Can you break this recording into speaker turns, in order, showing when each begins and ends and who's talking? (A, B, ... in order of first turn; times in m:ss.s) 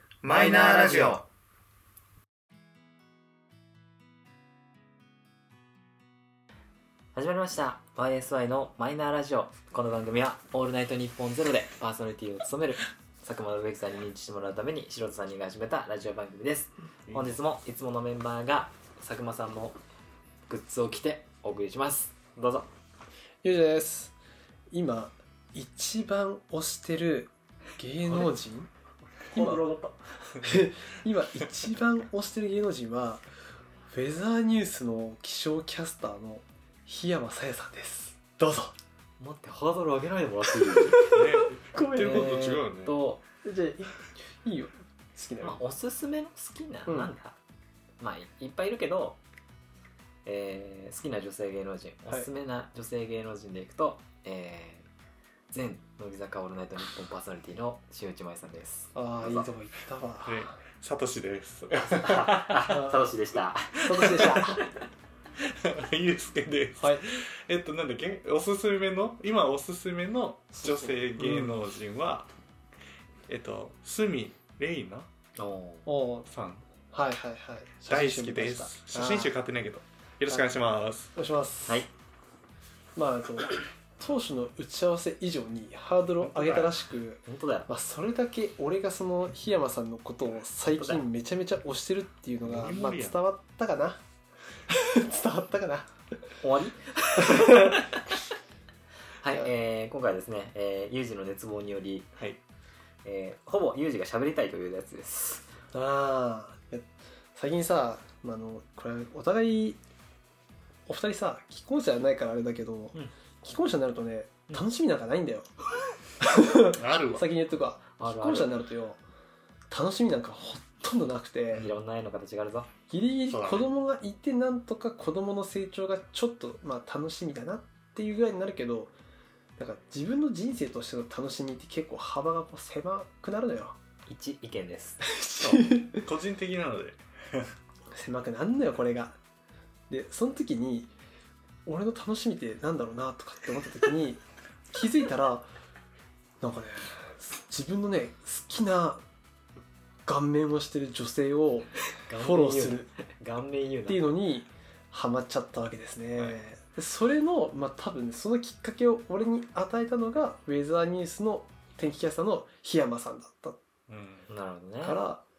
0:00.2-0:01.2 A
0:00.2-0:01.2 B
0:07.2-0:19.8 B
0:17.1-0:17.4 A
0:20.5-0:22.7 B
0:23.4-0:24.2 C
0:24.7-0:28.7 C
0:29.3-0:29.6 C
0:29.4-0:30.0 B
0:30.4-0:33.3 C
0:33.9-0:38.7 C
0:39.2-0:43.2 B
0:41.0-0:43.0 A
0:42.0-0:42.4 C
0:43.4-0:45.6 C
0:45.4-0:47.4 B
0:46.9-0:47.1 C
0:48.0-0:49.2 B
0:50.2-0:54.9 B
0:55.5-0:59.5 B
0:58.9-1:00.5 C
1:00.2-1:02.6 A
1:01.7-1:04.6 B
1:02.7-1:03.0 C
1:03.9-1:04.6 C
1:03.9-1:04.4 A
1:05.4-1:12.3 A
1:06.8-1:07.0 C
1:10.6-1:11.6 C
1:13.3-1:15.1 A
1:15.4-1:15.9 B
1:15.9-1:16.3 C
1:16.3-1:16.7 A
1:16.9-1:19.3 C
1:17.9-1:21.1 A
1:21.2-1:21.8 C
1:23.0-1:34.0 C
1:26.3-1:26.7 B
1:27.3-1:27.7 B
1:30.7-1:31.0 B
1:32.4-1:33.2 A
1:34.7-1:35.9 C
1:36.4-1:38.0 B
1:37.2-1:37.8 C
1:39.2-1:42.1 B
1:43.0-1:45.5 B
1:45.7-1:49.8 C
1:50.9-1:55.5 C
1:56.2-1:59.0 C
1:56.7-1:57.3 A
1:58.0-1:58.6 B
1:59.7-2:01.7 C
2:01.5-2:02.7 B
2:02.9-2:08.9 C
2:03.3-2:03.7 A
2:09.6-2:13.8 C
2:14.1-2:15.7 B
2:15.1-2:16.0 C
2:15.9-2:17.5 A
2:18.0-2:19.2 C
2:19.9-2:20.9 C
2:21.7-2:25.5 C
2:26.4-2:29.0 C
2:30.1-2:32.9 C
2:32.0-2:34.1 B
2:33.9-2:43.6 C
2:43.9-2:44.3 A
2:44.3-2:45.0 B
2:44.8-2:45.2 C